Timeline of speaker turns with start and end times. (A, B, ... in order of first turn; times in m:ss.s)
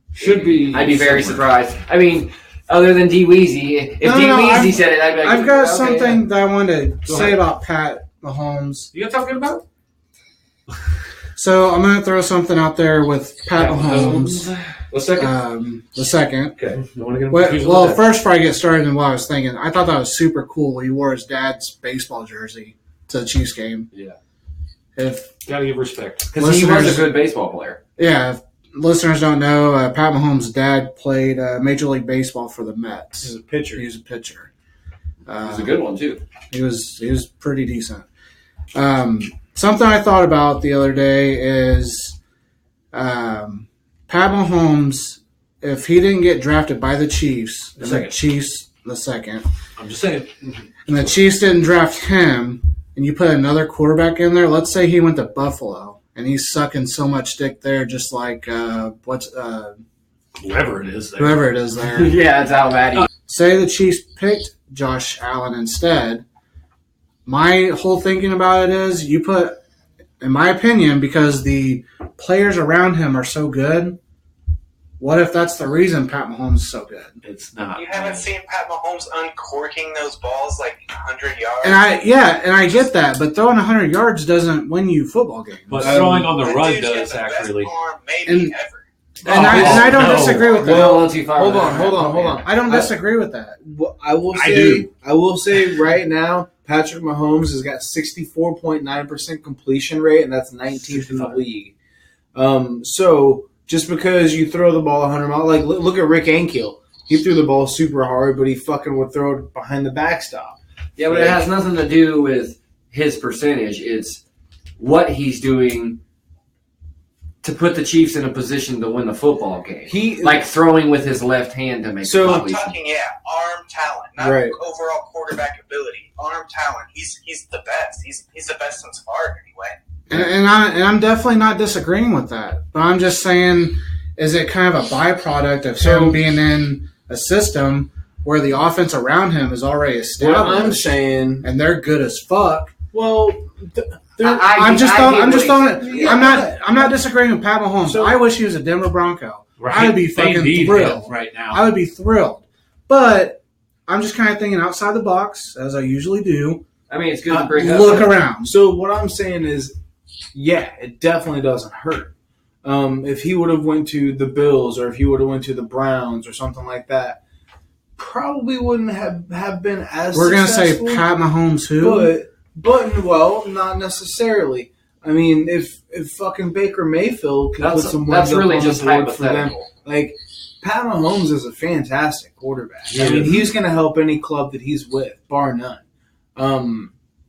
0:00.1-0:01.5 A
0:00.2-0:06.2 B
0:04.0-0:08.9 C
0:07.0-0:07.4 A
0:08.9-0:09.6 A
0:11.4-0:14.5 C
0:13.5-0:15.3 A
0:15.2-0:16.6 C
0:16.6-0:18.1 A
0:17.3-0:23.9 C
0:25.0-0:25.3 C
0:25.4-0:26.4 A
0:26.3-0:27.8 B
0:26.3-0:27.1 C
0:28.0-0:34.5 C
0:33.2-0:33.8 D
0:35.2-0:35.8 C
0:35.4-0:36.2 B
0:36.5-0:38.0 C
0:38.7-0:42.2 C
0:42.9-0:49.4 C
0:47.8-0:48.1 A
0:49.8-0:50.5 A
0:50.9-0:59.8 C
1:00.4-1:01.4 A
1:01.2-1:02.2 C
1:01.8-1:03.1 B
1:03.3-1:06.2 C
1:07.2-1:09.6 C
1:10.2-1:14.0 C
1:15.0-1:17.2 C
1:17.2-1:18.3 A
1:17.8-1:21.8 E
1:21.6-1:26.1 C
1:25.7-1:27.7 A
1:25.8-1:26.4 D
1:26.3-1:28.8 E
1:28.2-1:28.5 C
1:29.2-1:30.6 A
1:29.2-1:31.0 C
1:29.4-1:29.8 D
1:29.6-1:30.4 E
1:30.5-1:33.0 D
1:30.5-1:32.3 B
1:31.8-1:33.6 C
1:33.6-1:41.7 D
1:34.3-1:34.9 A
1:40.7-1:41.4 A
1:42.3-1:51.5 D
1:51.0-1:54.2 B
1:54.8-1:56.0 B
1:57.4-2:02.8 B
1:59.9-2:00.5 D
2:02.0-2:02.4 D
2:02.2-2:09.7 E
2:04.2-2:04.6 D
2:10.1-2:22.7 C
2:15.8-2:16.2 D
2:20.2-2:21.5 D
2:22.9-2:24.4 D
2:24.2-2:25.9 B
2:24.2-2:36.6 C
2:25.6-2:26.9 D
2:27.8-2:28.2 D
2:29.6-2:31.7 A
2:36.9-2:38.2 B
2:37.3-2:39.8 D
2:37.5-2:38.5 C
2:40.3-2:42.1 D
2:42.6-2:47.2 D
2:48.0-2:51.1 D
2:50.1-2:52.1 C
2:51.8-3:05.8 D
2:57.6-2:59.7 B
3:02.8-3:03.5 A
3:06.3-3:06.9 D